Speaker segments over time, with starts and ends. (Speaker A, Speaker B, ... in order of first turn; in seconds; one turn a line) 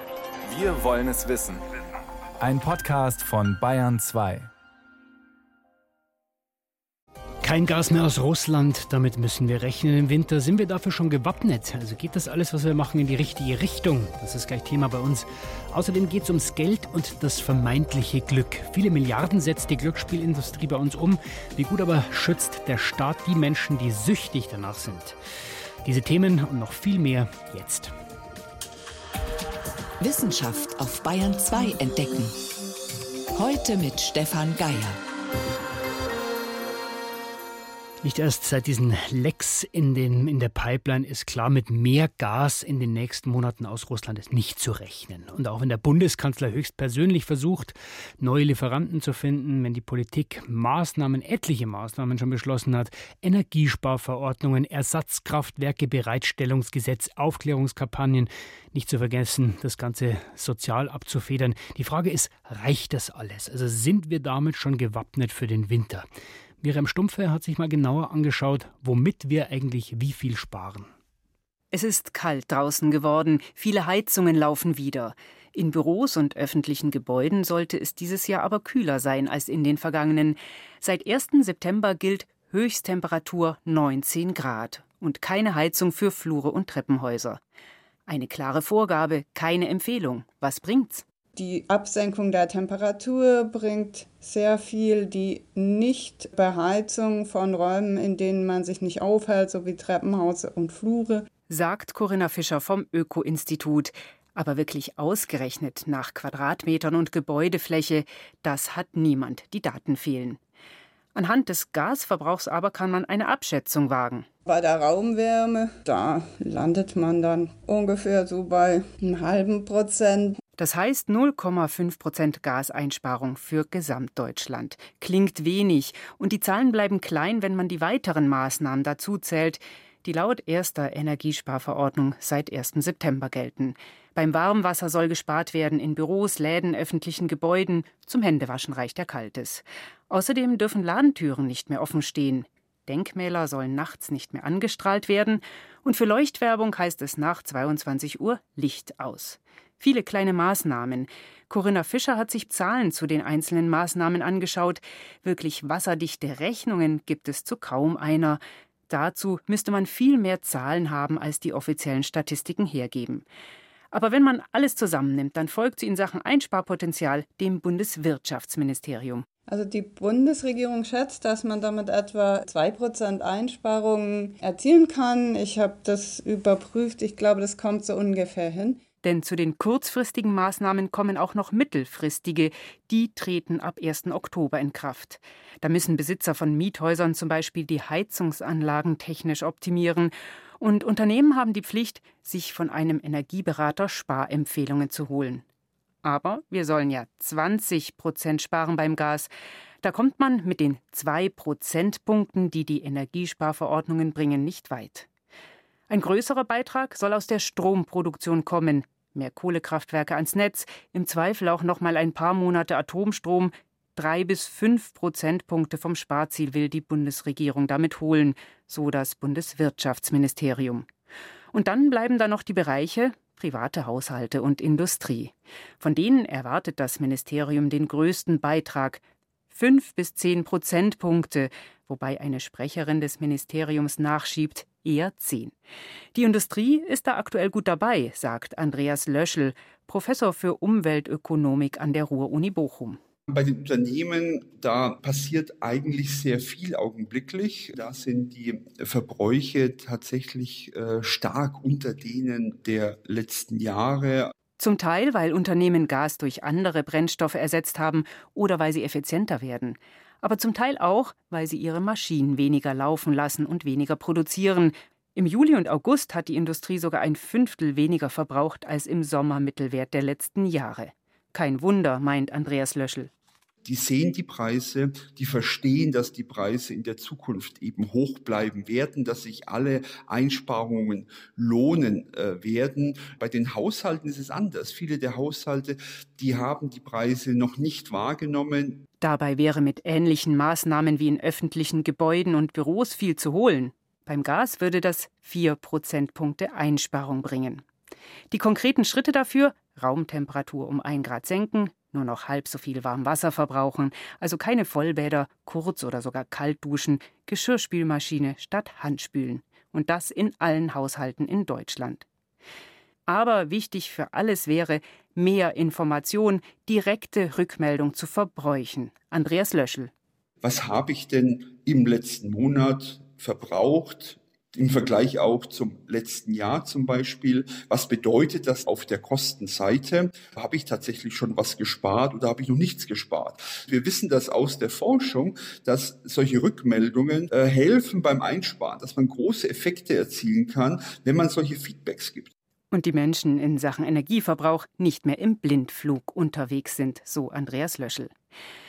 Speaker A: 0.4-1.7
Speaker A: 2.4-4.5
Speaker B: 7.4-25.2
Speaker B: 25.8-27.9
Speaker C: 30.0-32.4
Speaker C: 33.3-35.0
Speaker B: 38.0-66.1
Speaker B: 66.6-70.9
Speaker D: 71.7-87.4
Speaker D: 88.1-91.0
Speaker E: 91.3-101.2
Speaker D: 101.5-110.4
Speaker D: 111.1-114.3
Speaker E: 114.5-120.4
Speaker D: 120.6-163.2
Speaker D: 163.9-169.2
Speaker E: 169.5-178.8
Speaker D: 179.0-195.4
Speaker D: 196.0-199.3
Speaker D: 199.8-205.1
Speaker D: 205.9-220.9
Speaker D: 221.5-235.5
Speaker D: 236.1-243.0
Speaker F: 243.3-254.3
Speaker D: 254.6-273.1
Speaker F: 273.6-288.8
Speaker D: 289.0-297.6
Speaker D: 298.3-312.0
Speaker D: 313.1-319.9
Speaker F: 320.4-342.3
Speaker D: 342.7-348.1